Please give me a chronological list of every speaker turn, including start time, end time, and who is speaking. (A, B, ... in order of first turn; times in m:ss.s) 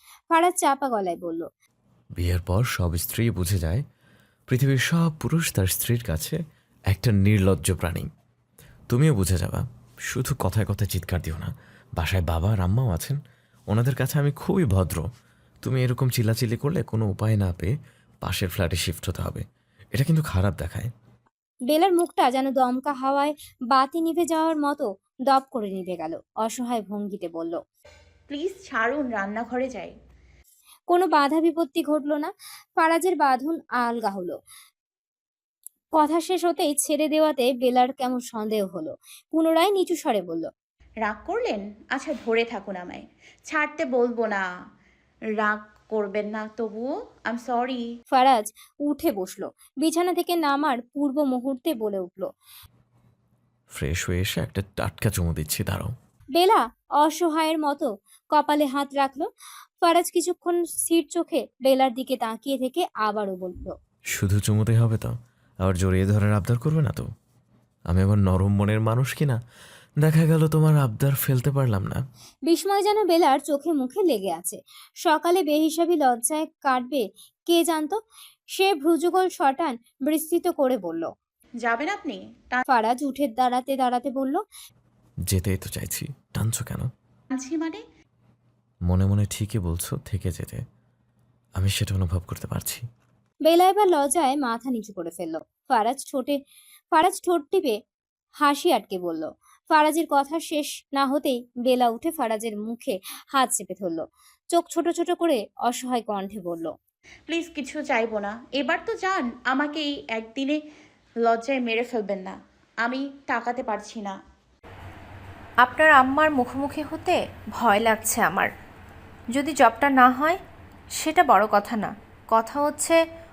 0:00.3-0:01.4 A
0:02.2-0:03.8 B
0:04.5-0:06.4 B
0:06.9-0:08.1 B
0:08.9-0:13.2 B
0:13.7-0:15.0 B
0:15.6-0:20.9 B
0:21.7-0:27.6 A
0:28.3-0:29.9 C
0:30.9-0:34.4 A
0:36.0-0:40.5 A
0:41.0-0:44.4 C
0:45.4-0:47.8 C
0:48.1-0:52.3 A
0:53.7-0:55.9 B
0:56.4-0:59.3 A
0:59.8-1:03.7 A
1:04.1-1:07.1 B
1:07.9-1:09.4 B
1:10.0-1:12.0 B
1:12.5-1:18.0 A
1:18.6-1:21.1 A
1:21.6-1:22.6 C
1:22.7-1:24.4 A
1:25.3-1:26.9 B
1:27.3-1:27.8 C
1:28.9-1:30.6 B
1:31.6-1:32.8 B
1:33.5-1:36.4 A
1:36.9-1:37.7 A
1:38.4-1:46.7 A
1:47.3-1:50.6 C
1:51.2-1:54.1 C
1:55.6-1:58.5 D
1:59.3-2:00.4 D
2:01.0-2:03.0 D